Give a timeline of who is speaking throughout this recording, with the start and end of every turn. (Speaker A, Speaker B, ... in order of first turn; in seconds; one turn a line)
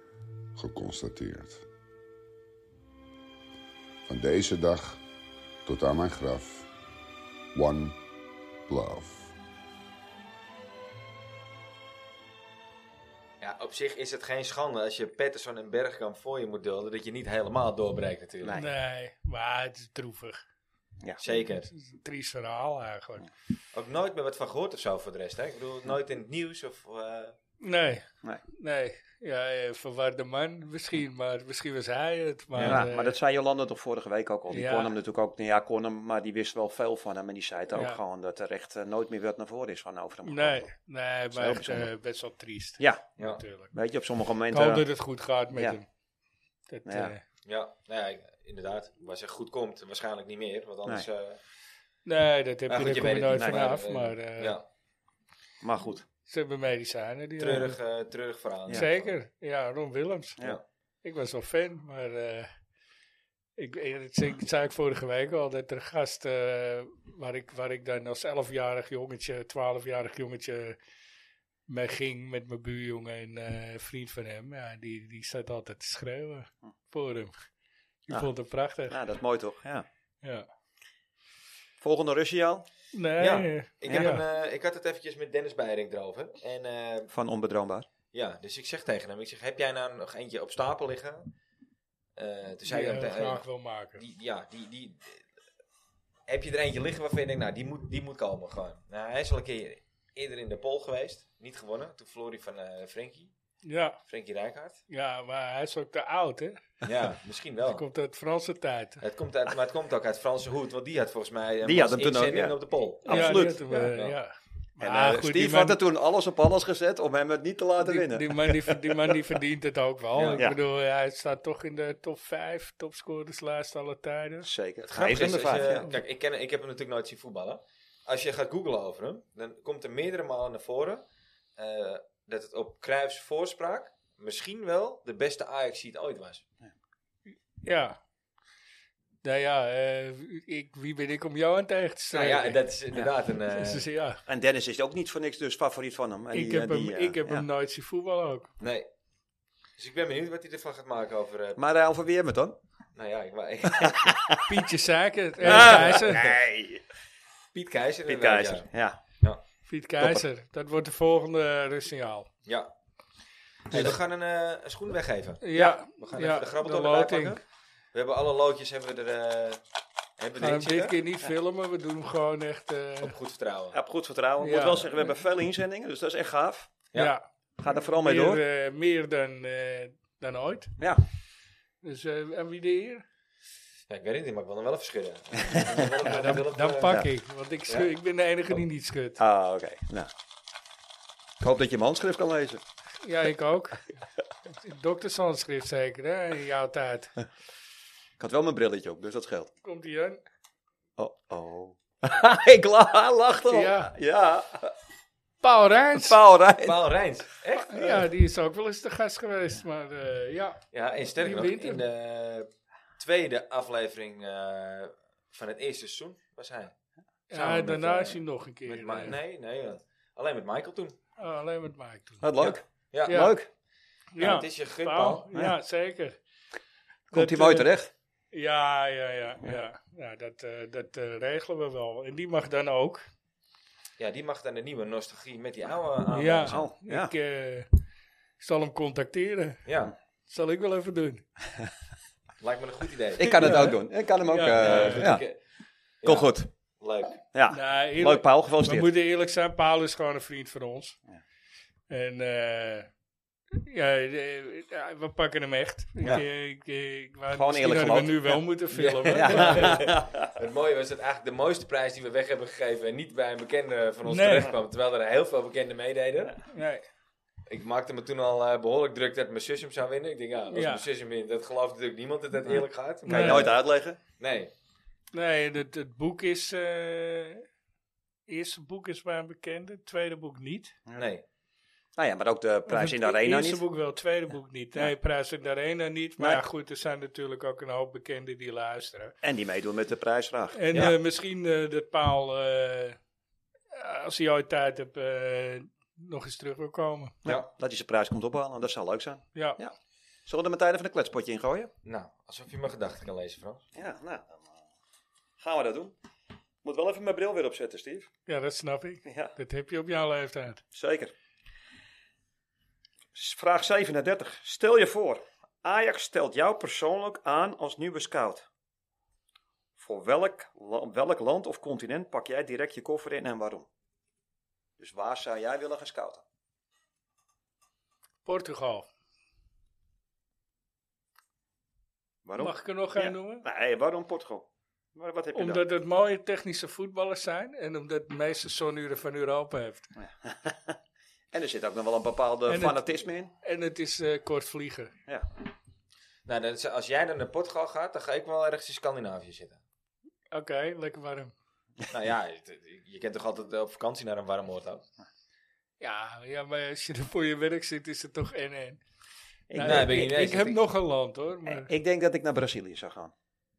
Speaker A: 0.5-1.6
Speaker A: 4.0-5.0
Speaker A: 5.6-6.7
Speaker A: 7.5-8.0
Speaker A: 8.7-9.3
Speaker B: 13.4-18.6
Speaker C: 18.4-18.7
Speaker D: 18.5-20.4
Speaker B: 21.2-21.7
Speaker D: 21.7-23.3
Speaker B: 23.7-27.4
Speaker D: 27.6-33.1
Speaker B: 32.5-32.8
Speaker C: 32.6-40.6
Speaker D: 34.5-34.9
Speaker D: 37.7-38.0
Speaker D: 40.2-43.7
Speaker C: 41.3-41.9
Speaker C: 42.8-43.0
Speaker C: 43.7-44.8
Speaker D: 44.5-45.8
Speaker D: 46.7-47.2
Speaker C: 46.9-47.1
Speaker B: 47.4-51.4
Speaker D: 52.0-54.6
Speaker B: 52.7-54.6
Speaker C: 53.4-53.7
Speaker C: 55.6-56.0
Speaker D: 56.3-57.7
Speaker B: 57.4-59.1
Speaker D: 58.7-60.4
Speaker D: 61.0-62.5
Speaker D: 63.6-70.8
Speaker D: 71.7-77.4
Speaker D: 78.1-79.0
Speaker C: 78.9-79.8
Speaker C: 81.8-82.7
Speaker D: 82.9-84.2
Speaker B: 83.2-87.1
Speaker C: 83.9-84.1
Speaker C: 87.1-87.8
Speaker B: 88.1-91.3
Speaker B: 92.2-93.4
Speaker D: 92.7-94.0
Speaker B: 94.0-95.2
Speaker B: 96.3-103.3
Speaker D: 103.6-104.0
Speaker B: 104.1-104.8
Speaker D: 104.9-106.8
Speaker B: 106.8-107.8
Speaker D: 107.6-109.0
Speaker B: 109.0-114.2
Speaker C: 111.6-113.9
Speaker D: 113.1-115.8
Speaker C: 114.8-119.1
Speaker D: 117.8-124.5
Speaker B: 120.1-120.4
Speaker C: 124.4-125.9
Speaker B: 124.9-131.0
Speaker B: 131.6-136.4
Speaker D: 137.6-138.0
Speaker D: 139.2-142.6
Speaker B: 142.1-143.8
Speaker D: 143.5-144.2
Speaker C: 144.3-147.4
Speaker D: 146.3-148.5
Speaker B: 148.6-148.9
Speaker B: 149.8-151.6
Speaker C: 151.6-152.6
Speaker B: 152.9-154.1
Speaker C: 153.7-154.4
Speaker D: 154.5-156.3
Speaker B: 155.4-156.3
Speaker C: 155.4-156.8
Speaker B: 157.5-158.7
Speaker C: 158.1-159.0
Speaker D: 159.7-162.3
Speaker B: 162.4-162.7
Speaker B: 163.7-167.4
Speaker D: 165.4-167.4
Speaker B: 167.9-169.6
Speaker B: 170.2-171.0
Speaker D: 170.4-173.2
Speaker B: 173.0-173.8
Speaker C: 173.7-176.7
Speaker D: 174.4-174.9
Speaker D: 176.9-177.2
Speaker C: 177.6-178.4
Speaker D: 177.8-180.7
Speaker D: 181.8-183.0
Speaker B: 183.9-187.0
Speaker D: 185.8-189.2
Speaker C: 189.2-190.1
Speaker C: 191.4-192.6
Speaker D: 193.0-193.9
Speaker D: 194.6-197.1
Speaker C: 198.2-199.5
Speaker D: 199.6-200.2
Speaker C: 201.0-204.7
Speaker D: 203.5-203.9
Speaker D: 205.4-206.2
Speaker C: 205.9-207.0
Speaker B: 206.6-208.0
Speaker D: 207.6-210.6
Speaker B: 210.7-216.7
Speaker D: 211.2-211.8
Speaker D: 217.3-219.2
Speaker B: 217.3-221.0
Speaker D: 221.2-222.2
Speaker C: 222.2-223.5
Speaker B: 222.4-223.3
Speaker D: 223.1-223.3
Speaker D: 224.1-226.2
Speaker B: 224.2-225.2
Speaker D: 227.1-227.7
Speaker C: 227.1-227.9
Speaker D: 228.3-233.1
Speaker B: 234.0-236.6
Speaker D: 236.1-237.7
Speaker C: 236.5-237.1
Speaker D: 238.4-239.6
Speaker B: 239.6-239.9
Speaker D: 240.3-241.2
Speaker B: 242.4-243.7
Speaker C: 243.2-245.2
Speaker D: 243.2-245.1
Speaker B: 244.5-245.4
Speaker B: 246.0-247.2
Speaker C: 246.0-246.5
Speaker C: 247.3-248.9
Speaker D: 247.5-251.0
Speaker D: 251.9-252.9
Speaker D: 253.5-259.8
Speaker C: 257.3-258.4
Speaker B: 258.7-266.4
Speaker C: 259.1-260.3
Speaker D: 264.1-264.5
Speaker D: 266.5-266.8
Speaker B: 267.5-273.6
Speaker D: 270.5-270.9
Speaker C: 272.5-274.0
Speaker D: 273.1-273.5
Speaker B: 274.2-274.5
Speaker D: 275.1-277.4
Speaker D: 278.3-280.8
Speaker B: 280.9-281.2
Speaker C: 282.0-283.6
Speaker D: 282.7-289.1
Speaker C: 289.2-290.9
Speaker D: 290.5-293.0
Speaker D: 293.7-297.2
Speaker C: 297.2-299.7
Speaker C: 300.2-301.7
Speaker B: 301.8-303.6
Speaker C: 303.7-304.6
Speaker C: 305.4-305.9
Speaker C: 306.6-308.1
Speaker D: 308.3-310.6
Speaker C: 309.0-309.3
Speaker C: 310.7-311.1
Speaker C: 313.1-318.5
Speaker C: 319.8-323.7
Speaker C: 324.8-326.2
Speaker D: 328.2-328.9
Speaker C: 332.2-335.6
Speaker D: 332.4-333.4
Speaker D: 335.3-339.9
Speaker C: 340.0-340.8
Speaker C: 341.3-343.3
Speaker D: 342.5-344.9
Speaker B: 346.2-349.6
Speaker D: 350.3-351.3
Speaker B: 351.9-354.8
Speaker D: 355.8-358.8
Speaker C: 359.5-360.0
Speaker D: 359.5-361.7
Speaker B: 359.6-360.6
Speaker C: 361.4-363.1